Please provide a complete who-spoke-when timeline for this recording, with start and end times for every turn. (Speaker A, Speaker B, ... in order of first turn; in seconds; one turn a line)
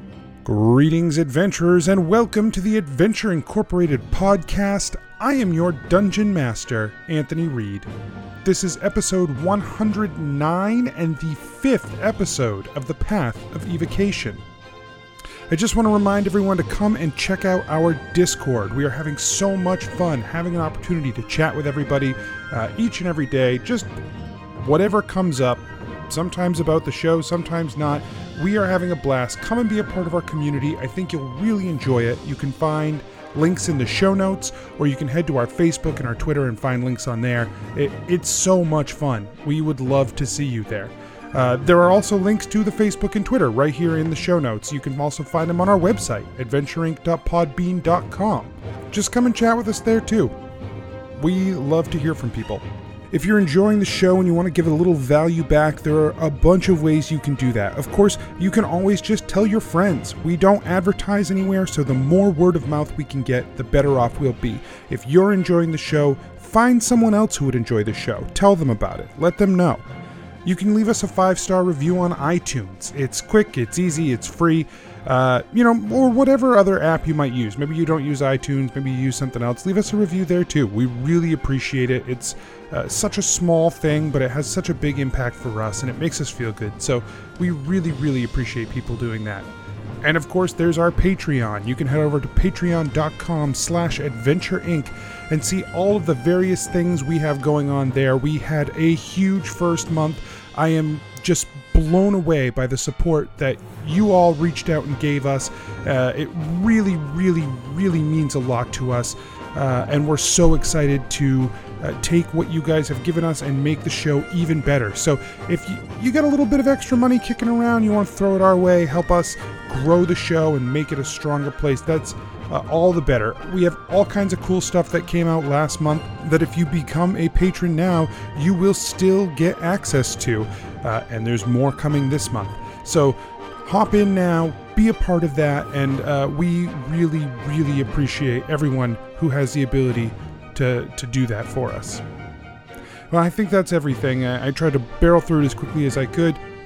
Speaker A: 0.4-7.9
Speaker A: 8.4-14.4
Speaker A: 15.5-23.9
Speaker A: 24.6-50.3
Speaker A: 51.1-69.8
Speaker A: 70.4-89.5
Speaker A: 90.0-142.0
Speaker A: 143.1-146.4